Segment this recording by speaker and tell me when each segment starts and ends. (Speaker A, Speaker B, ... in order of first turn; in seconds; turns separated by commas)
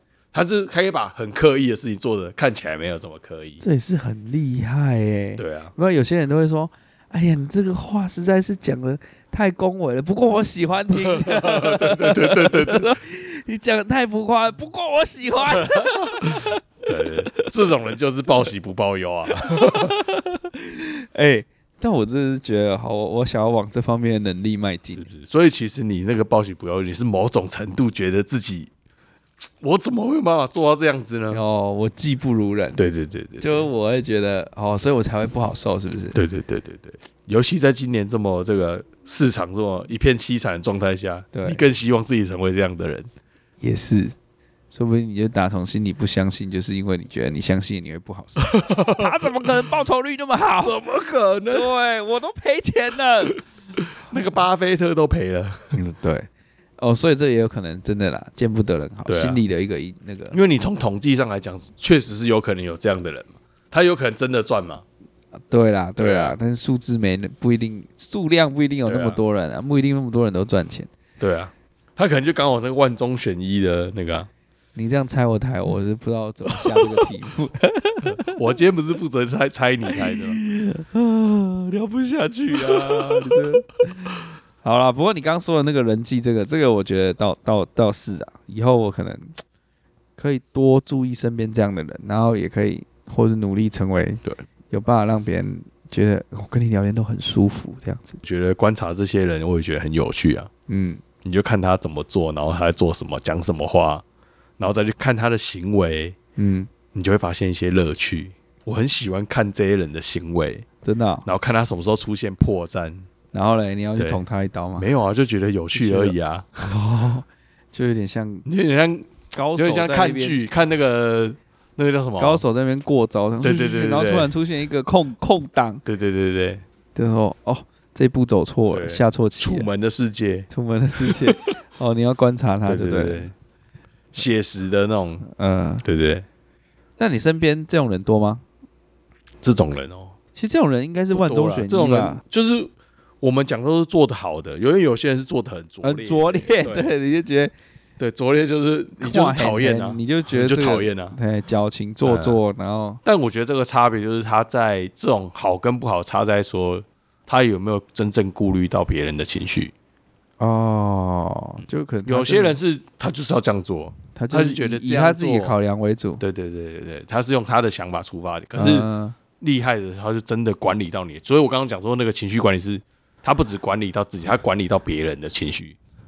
Speaker A: 0.3-3.6, Speaker B: 3.6-17.5, Speaker A: 5.4-5.7, Speaker A: 11.0-12.9, Speaker A: 15.6-20.0, Speaker B: 19.5-25.1, Speaker A: 24.9-28.7, Speaker A: 29.6-31.4, Speaker B: 31.3-32.8, Speaker A: 32.8-33.7, Speaker B: 33.4-36.2, Speaker A: 36.1-43.1, Speaker B: 41.3-41.6, Speaker B: 43.6-44.1, Speaker B: 44.7-50.8, Speaker A: 48.5-49.1, Speaker A: 50.6-51.7, Speaker B: 51.5-53.4, Speaker A: 54.0-55.8, Speaker B: 55.7-56.3, Speaker B: 56.8-60.4, Speaker A: 59.1-59.4, Speaker A: 60.3-64.8, Speaker B: 65.5-70.9, Speaker A: 66.0-66.4, Speaker A: 68.8-69.2, Speaker A: 71.2-74.3, Speaker B: 74.8-78.4, Speaker A: 76.6-77.0, Speaker A: 78.0-80.4, Speaker B: 79.9-89.3, Speaker A: 82.5-83.5, Speaker B: 90.2-98.2, Speaker A: 98.2-100.5, Speaker B: 100.7-101.0, Speaker A: 101.2-104.0, Speaker A: 104.6-106.2, Speaker B: 106.4-106.7, Speaker A: 106.9-110.6, Speaker B: 110.8-111.3, Speaker A: 111.2-113.1, Speaker B: 113.3-114.9, Speaker A: 114.8-116.7, Speaker B: 115.7-118.5, Speaker A: 118.5-122.4, Speaker B: 119.3-120.4, Speaker B: 122.2-125.8, Speaker A: 123.4-124.3, Speaker A: 125.8-126.6, Speaker B: 126.9-129.7, Speaker A: 128.7-130.5, Speaker B: 130.5-133.3, Speaker A: 131.0-131.5, Speaker A: 132.7-133.3, Speaker A: 134.1-135.2, Speaker B: 135.3-135.8, Speaker A: 135.8-136.2, Speaker B: 137.0-138.4, Speaker A: 139.4-140.1, Speaker B: 140.3-142.2, Speaker A: 141.1-146.9, Speaker B: 145.8-147.5, Speaker A: 148.0-151.2, Speaker B: 149.0-153.0, Speaker A: 152.0-152.4, Speaker A: 153.0-159.7, Speaker B: 160.4-162.6, Speaker A: 161.6-165.5, Speaker B: 164.1-166.2, Speaker A: 166.2-168.8, Speaker B: 168.6-169.2, Speaker A: 169.4-175.8